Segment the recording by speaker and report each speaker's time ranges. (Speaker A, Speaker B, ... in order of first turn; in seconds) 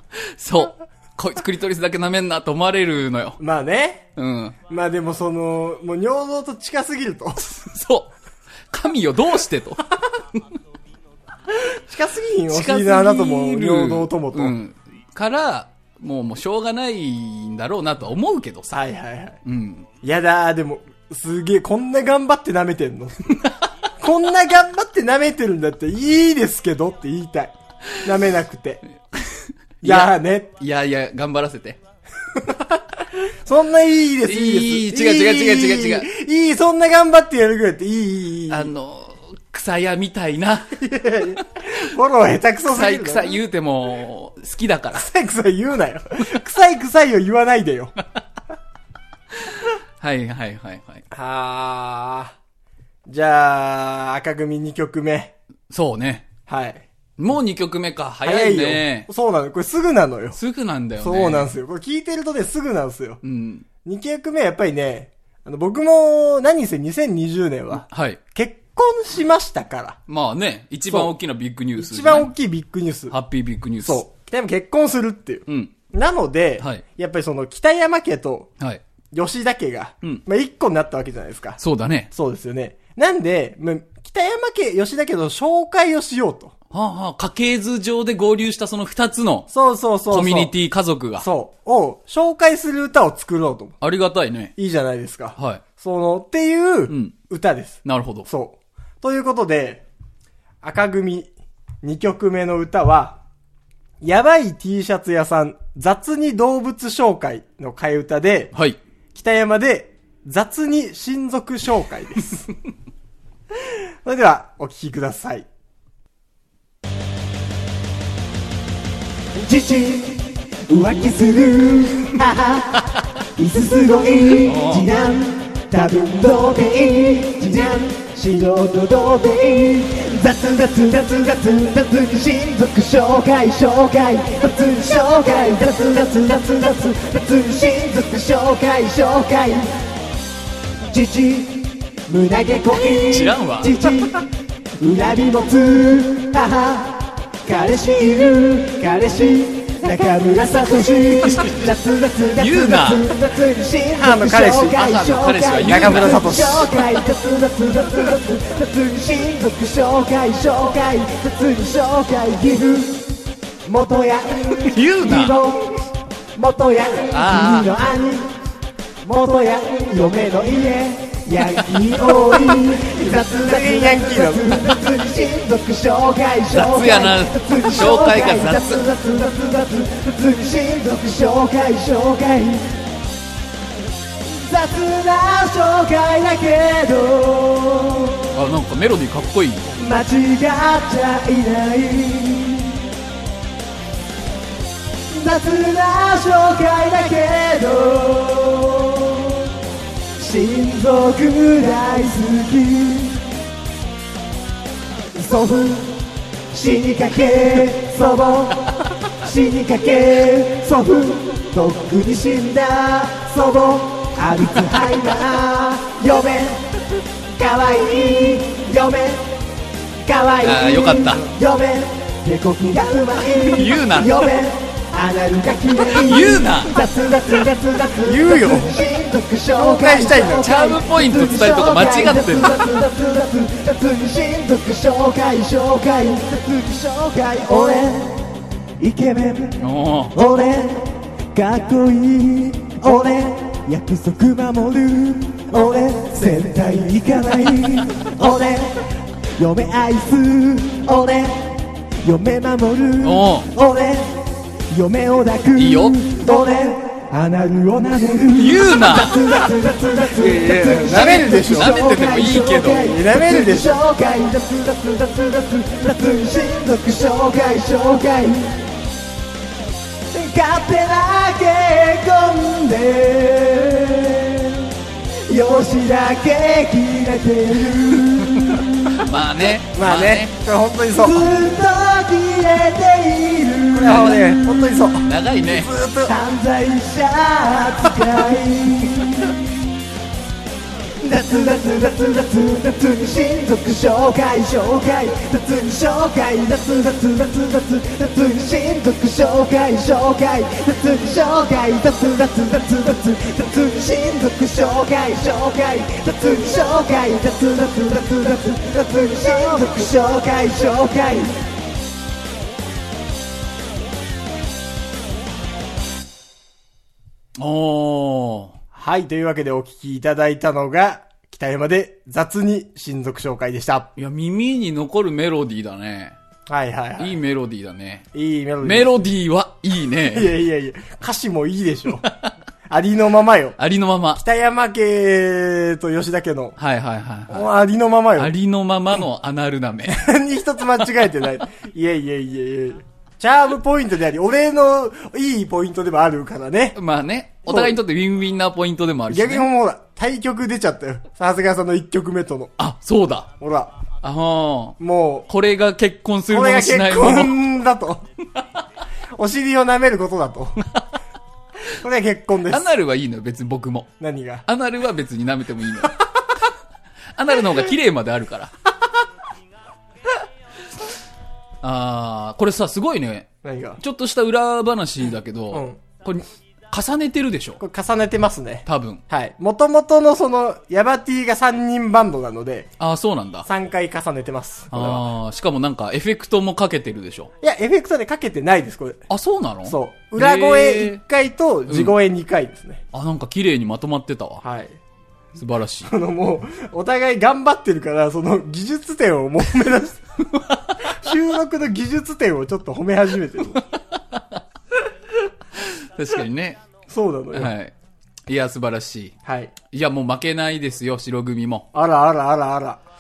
Speaker A: 0.3-3.4, 4.2-4.6, 7.4-8.1, 8.7-9.8, 12.5-18.8, 19.4-19.9, 29.2-31.8, 34.3-36.1, 38.5-40.8, 42.7-45.1, 49.4-51.0, 55.7-56.3, 57.2-59.1, 60.4-61.5, 63.2-63.7, 67.8-68.2, 70.1-72.3, 73.1-74.0, 75.5-75.7, 81.6-82.1, 86.7-89.5, 90.1-91.3, 93.8-94.5, 95.4-95.6, 96.9-97.2, 97.8-98.3, 108.5-108.8, 124.4-124.9, 142.9-143.8, 152.4-153.2, 154.7-156.7, 164.6-165.4, 167.1-167.7, 176.5-178.8, 188.3-189.7, 220.4-221.2, 223.5-224.3, 225.9-226.8, 230.3-232.7, 239.6-240.1, 253.0-253.5, 255.6-256.0, 258.3-259.5, 260.2-262.9, 278.3-280.3, 283.9-284.3, 285.0-285.7, 317.4-318.6, 324.0-326.1, 327.0-328.1, 328.6-330.3, 333.6-334.2, 336.6-337.5, 338.2-340.1, 346.8-349.5, 352.6-353.3, 354.0-354.8, 355.3-357.4, 362.5-363.9, 364.5-366.0, 367.1-368.5, 371.6-377.6, 378.7-379.0, 382.8-383.5, 384.7-387.3, 389.1-391.0, 391.7-392.0, 392.9-394.4, 395.4-395.9, 405.6-406.6, 407.3-407.7, 408.3-409.2, 409.7-411.7
Speaker B: 3.4-4.0, 4.7-7.5, 11.9-14.6, 18.7-19.4, 20.0-23.3, 24.0-28.8, 29.8-30.5, 33.5-38.7, 40.8-43.4, 45.0-47.9, 51.1-52.4, 53.1-55.4, 56.5-56.9, 58.2-60.4, 61.0-63.2, 63.8-70.0, 70.9-71.1, 71.8-73.2, 73.8-78.5, 79.1-81.6, 82.1-86.5, 89.5-90.5, 91.2-93.8, 94.6-99.8, 100.6-103.2, 104.0-108.5, 109.2-112.4, 114.0-115.5, 154.0-154.8, 155.6-156.8, 173.3-174.6, 228.0-228.8, 229.6-230.5, 260.6-261.7, 262.8-263.7, 279.7-281.3, 283.7-286.1, 318.7-323.9, 326.5-327.2, 328.1-329.0, 330.1-332.1, 332.7-333.6, 334.2-336.6, 337.3-338.3, 339.9-346.8, 347.5-347.8, 349.1-352.5, 353.4-353.7, 354.8-355.3, 356.3-358.0, 359.2-360.6, 361.7-362.7, 364.0-364.4, 373.4-373.8, 375.5-375.8, 377.6-382.7, 383.5-385.1, 387.4-389.0, 389.7-392.8, 394.4-394.8, 395.9-400.0, 400.9-403.6, 406.9-407.5, 409.2-409.5, 411.7-412.8
Speaker C: 119.4-139.7, 140.9-144.2, 144.8-163.1, 163.7-165.7, 166.4-168.3, 169.0-182.7, 184.3-188.3, 189.8-192.8, 195.1-199.4, 200.2-203.2, 205.1-206.0, 206.5-208.7, 209.2-216.6, 217.4-219.2, 220.1-238.2, 238.8-239.6, 240.1-248.8, 249.4-268.6, 270.1-274.6, 275.3-279.1, 281.0-284.9, 286.1-289.5, 291.0-311.3